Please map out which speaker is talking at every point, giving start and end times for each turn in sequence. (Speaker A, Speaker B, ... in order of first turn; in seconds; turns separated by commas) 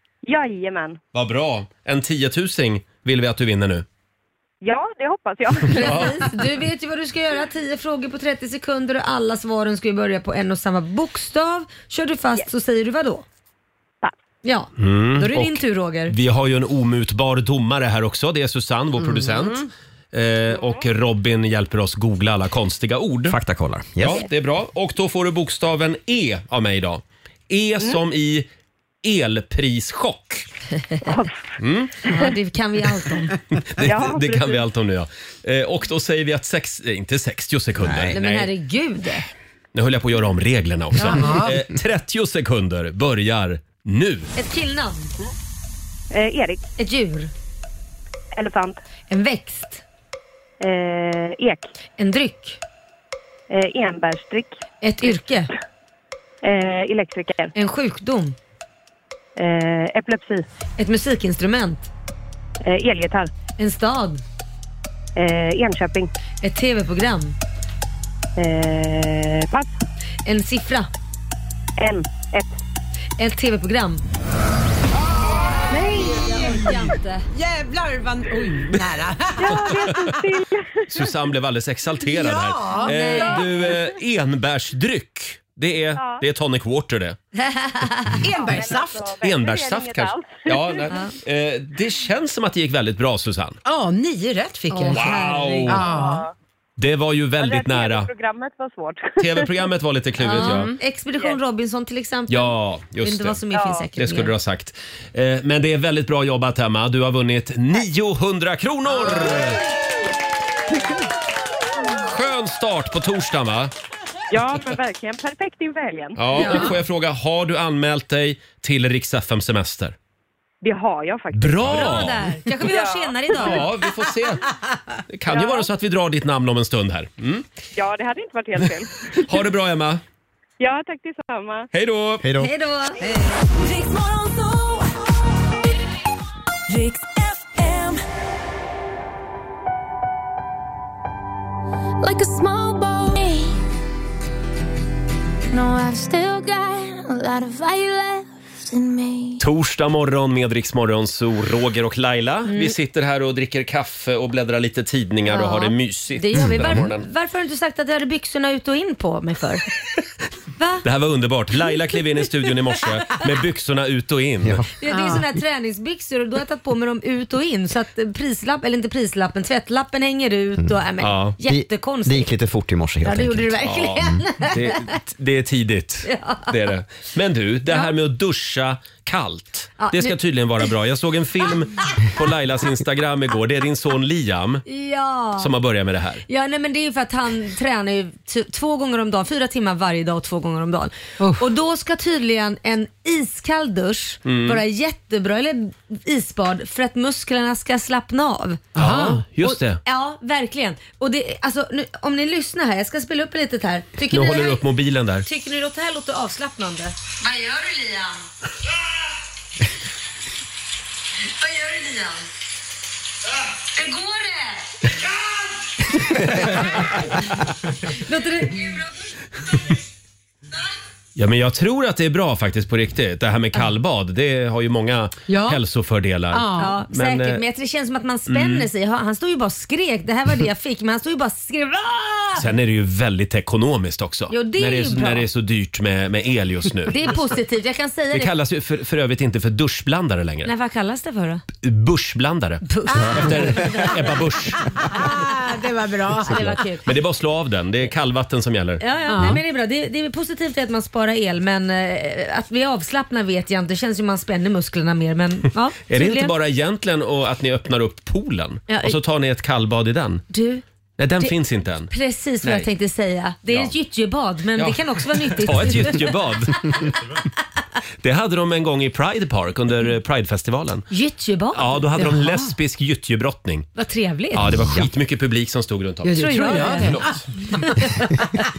Speaker A: 0.2-1.0, Speaker B: 1.1-3.8, Speaker A: 4.6-6.1, Speaker B: 5.7-6.2, Speaker C: 5.7-13.2, Speaker C: 14.4-16.1, Speaker B: 14.8-23.4, Speaker D: 23.3-24.2, Speaker B: 24.0-28.5, Speaker B: 29.0-30.5, Speaker A: 31.0-31.3, Speaker B: 31.6-31.9, Speaker C: 32.1-33.4, Speaker B: 33.5-38.5, Speaker A: 33.8-34.6, Speaker D: 37.8-38.1, Speaker C: 38.1-39.2, Speaker B: 39.7-44.3, Speaker E: 41.0-41.5, Speaker C: 44.4-45.1, Speaker A: 46.1-46.6, Speaker C: 46.8-47.3, Speaker A: 48.3-48.8, Speaker C: 49.1-49.8, Speaker A: 50.6-51.7, Speaker C: 52.0-52.6, Speaker A: 53.5-54.5, Speaker C: 54.8-55.5, Speaker A: 56.4-57.5, Speaker C: 57.5-58.4, Speaker A: 59.4-60.5, Speaker C: 60.8-61.9, Speaker A: 62.6-63.3, Speaker C: 63.6-64.2, Speaker A: 65.2-66.1, Speaker C: 66.4-67.3, Speaker A: 68.4-69.7, Speaker C: 70.2-70.9, Speaker A: 71.8-72.5, Speaker C: 73.2-74.0, Speaker A: 75.7-76.6, Speaker E: 75.7-80.2, Speaker C: 76.0-77.3, Speaker A: 79.4-81.0, Speaker B: 79.5-80.0, Speaker B: 80.9-87.2, Speaker E: 82.0-83.4, Speaker C: 82.8-83.5, Speaker A: 83.3-83.8, Speaker A: 86.0-86.2, Speaker C: 87.4-88.2, Speaker E: 88.2-89.1, Speaker A: 88.3-90.9, Speaker B: 89.2-93.6, Speaker E: 93.6-95.1, Speaker C: 94.7-95.8, Speaker B: 94.9-95.9, Speaker E: 95.7-96.3, Speaker A: 95.7-96.3, Speaker B: 96.8-98.1, Speaker A: 97.4-99.5, Speaker B: 99.2-100.7, Speaker C: 100.2-104.3, Speaker E: 100.3-100.7, Speaker B: 102.3-103.4, Speaker A: 103.5-103.8, Speaker B: 104.0-109.6, Speaker B: 112.0-113.7, Speaker A: 114.3-116.7, Speaker B: 116.2-119.9, Speaker C: 116.3-116.7, Speaker A: 120.6-123.6, Speaker B: 121.3-122.7, Speaker C: 121.7-123.7, Speaker B: 123.3-124.4, Speaker B: 125.1-127.4, Speaker A: 125.3-125.7, Speaker A: 127.8-129.1, Speaker B: 129.2-130.0, Speaker A: 130.6-131.7, Speaker B: 131.7-132.2, Speaker D: 132.2-132.5, Speaker C: 132.4-133.0, Speaker F: 133.5-134.9, Speaker F: 136.7-138.0, Speaker B: 149.4-157.1, Speaker C: 152.5-152.7, Speaker C: 155.3-159.6, Speaker D: 156.3-156.8, Speaker C: 160.6-160.8, Speaker B: 160.8-164.7, Speaker C: 164.8-172.3, Speaker E: 164.9-165.3, Speaker B: 171.0-171.3, Speaker D: 171.4-174.2, Speaker C: 173.0-174.9, Speaker B: 173.6-184.6, Speaker C: 176.0-176.5, Speaker C: 179.8-180.2, Speaker C: 184.7-185.5, Speaker B: 185.4-186.2, Speaker C: 186.3-198.6, Speaker E: 191.2-191.4, Speaker B: 194.2-194.6, Speaker E: 198.7-199.2, Speaker B: 198.8-199.8, Speaker C: 199.4-204.6, Speaker B: 204.1-205.2, Speaker C: 205.2-208.2, Speaker C: 211.3-212.3, Speaker C: 213.7-214.6, Speaker C: 216.4-216.7, Speaker C: 217.9-219.1, Speaker B: 221.2-227.4, Speaker E: 225.3-225.6, Speaker E: 226.3-226.8, Speaker C: 226.5-232.4, Speaker B: 228.3-228.7, Speaker B: 232.3-237.0, Speaker C: 234.3-235.3, Speaker C: 236.9-238.3, Speaker B: 238.1-240.5, Speaker C: 240.4-241.4, Speaker B: 241.6-244.7, Speaker C: 242.7-244.1, Speaker E: 244.9-246.7, Speaker C: 245.0-246.9, Speaker B: 246.8-249.3, Speaker C: 248.8-256.3, Speaker E: 249.1-249.4, Speaker B: 255.9-260.2, Speaker C: 258.7-258.9, Speaker C: 260.3-260.6, Speaker B: 261.0-261.9, Speaker C: 261.9-266.1, Speaker B: 262.4-262.7, Speaker B: 264.6-267.0, Speaker B: 268.0-270.9, Speaker C: 270.9-271.8, Speaker B: 271.5-273.7, Speaker E: 272.0-272.5, Speaker C: 273.8-274.4, Speaker B: 274.3-277.2, Speaker D: 274.4-274.9, Speaker E: 276.0-277.2, Speaker C: 276.1-277.0, Speaker C: 277.5-278.1